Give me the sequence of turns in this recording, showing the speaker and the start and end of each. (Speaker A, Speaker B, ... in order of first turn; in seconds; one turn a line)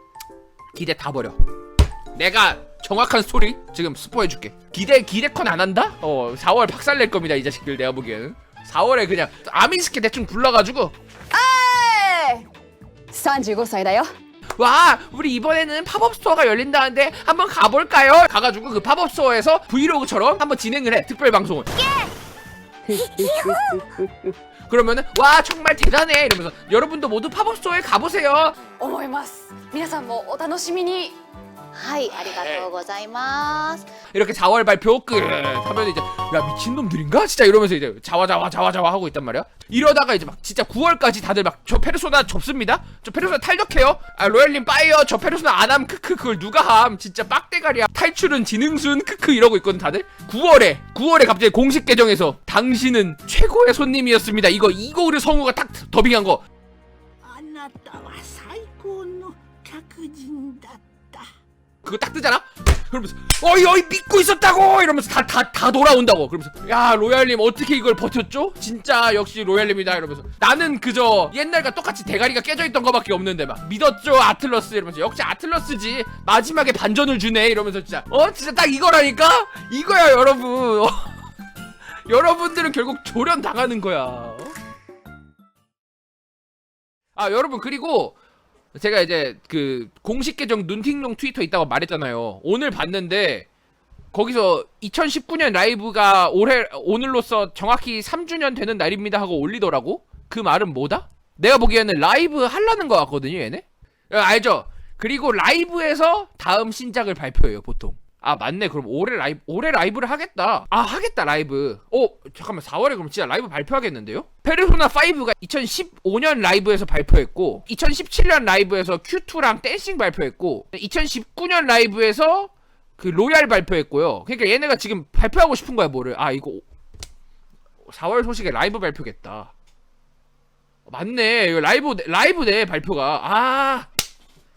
Speaker A: 0.7-1.4
Speaker A: 2.1-10.9
Speaker B: 11.3-12.5
Speaker B: 13.1-14.1
Speaker A: 14.6-21.9
Speaker C: 22.9-24.3
Speaker B: 22.9-23.8
Speaker A: 24.7-28.6
Speaker B: 28.7-31.2
Speaker D: 31.7-33.9
Speaker A: 34.1-56.5
Speaker C: 57.2-61.3
Speaker A: 61.8-81.1
Speaker A: 82.1-84.5
Speaker A: 87.2-88.2
Speaker A: 88.7-93.5
Speaker A: 94.1-126.7
Speaker A: 127.8-129.5
Speaker A: 130.9-133.9